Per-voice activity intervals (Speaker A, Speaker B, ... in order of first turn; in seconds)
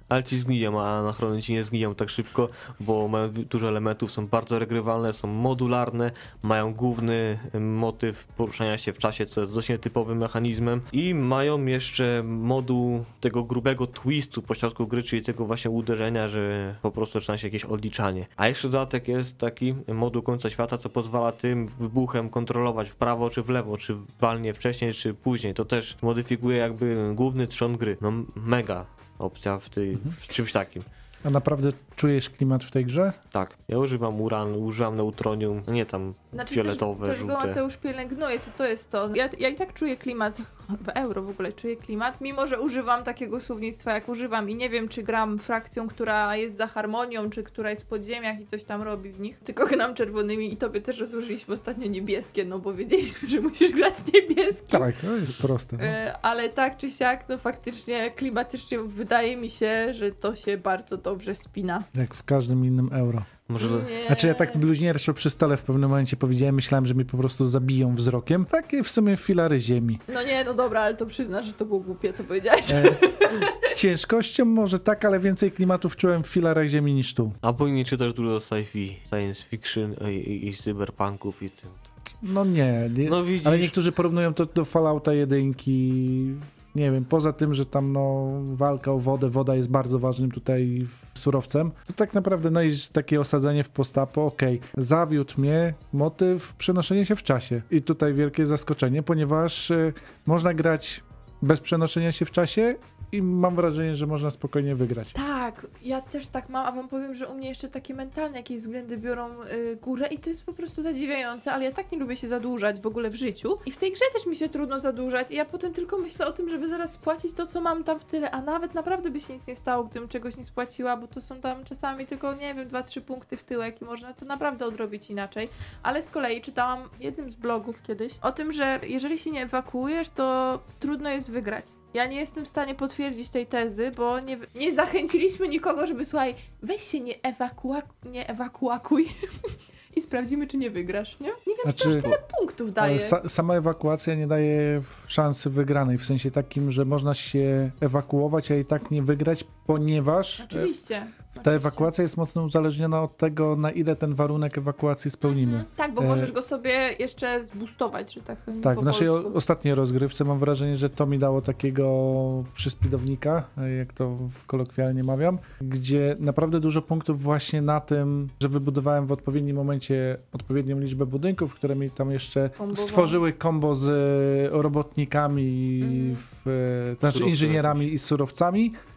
Speaker A: 0.1-30.9, 33.3-37.6, 63.5-64.0, 77.4-81.9, 83.0-83.8, 141.9-142.2, 177.0-177.9
Speaker B: 31.2-33.2, 54.7-56.0, 61.9-63.3, 64.1-70.0, 72.7-77.4, 82.2-105.1, 141.7-142.1, 142.8-150.7, 151.4-156.3, 158.6-178.8
Speaker C: 36.3-54.9, 55.8-61.9, 63.6-64.6, 70.1-73.6, 105.2-143.2, 150.4-151.9, 155.2-159.4, 172.6-173.2, 175.8-176.2